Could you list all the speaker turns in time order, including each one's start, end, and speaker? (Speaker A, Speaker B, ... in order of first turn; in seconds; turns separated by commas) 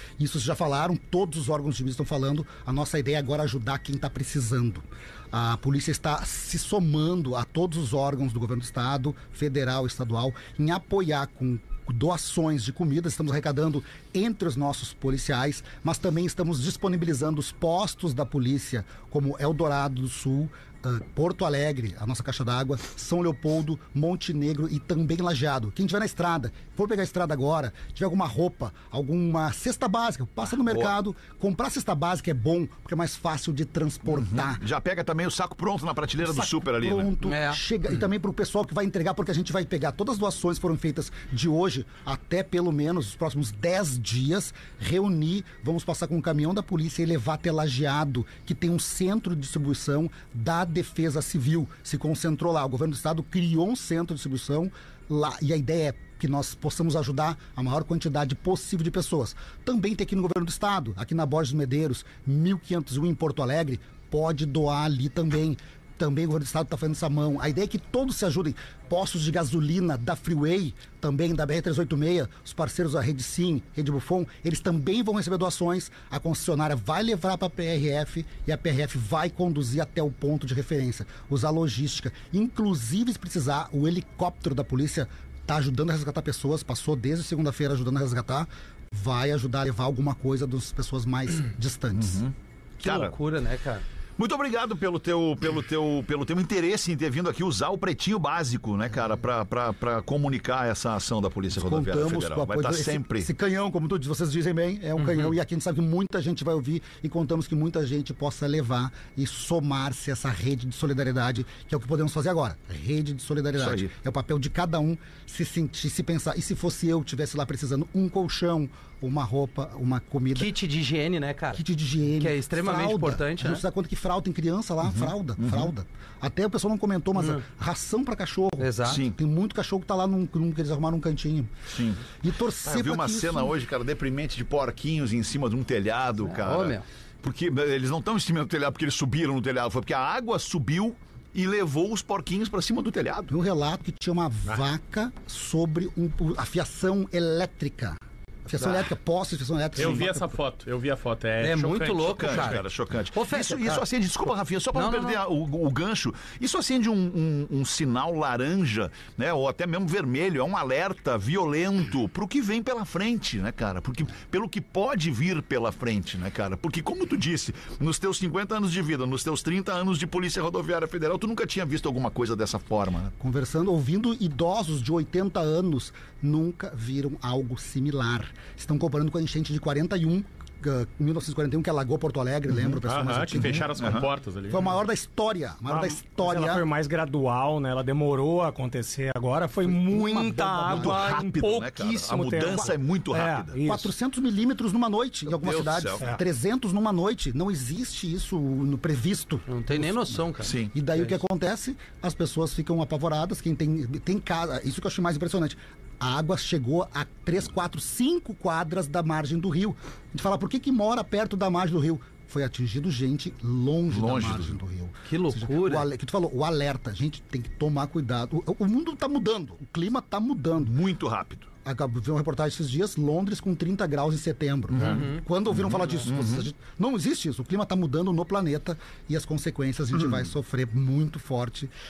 Speaker A: 0.2-34.6, Speaker B: 30.6-30.9, Speaker B: 34.1-37.1, Speaker A: 36.2-92.2, Speaker C: 37.2-37.6, Speaker B: 91.9-93.2, Speaker C: 92.8-93.8, Speaker B: 94.2-103.3, Speaker A: 101.5-120.5, Speaker C: 105.0-105.3, Speaker B: 113.6-113.9, Speaker C: 120.3-121.6, Speaker A: 121.5-131.5, Speaker C: 122.2-123.6, Speaker B: 124.8-125.7, Speaker C: 127.2-127.4, Speaker C: 128.6-129.0, Speaker B: 128.9-129.2, Speaker B: 131.7-132.0, Speaker A: 132.2-133.6, Speaker B: 132.6-143.3, Speaker C: 136.3-136.8, Speaker A: 143.3-150.3, Speaker D: 149.7-152.5, Speaker C: 151.4-152.6, Speaker B: 152.0-173.1, Speaker C: 153.1-153.8, Speaker C: 154.7-155.2, Speaker A: 173.2-184.0, Speaker D: 182.8-184.7, Speaker B: 183.7-184.1, Speaker A: 184.5-186.7, Speaker E: 185.7-193.9, Speaker A: 189.6-191.1, Speaker B: 190.7-193.6, Speaker A: 193.6-220.8, Speaker B: 195.3-196.0, Speaker C: 199.5-201.1, Speaker B: 200.4-200.7, Speaker B: 213.9-214.6, Speaker C: 215.1-215.9, Speaker B: 220.6-221.5, Speaker A: 221.6-231.7, Speaker C: 224.8-225.2, Speaker B: 225.5-226.5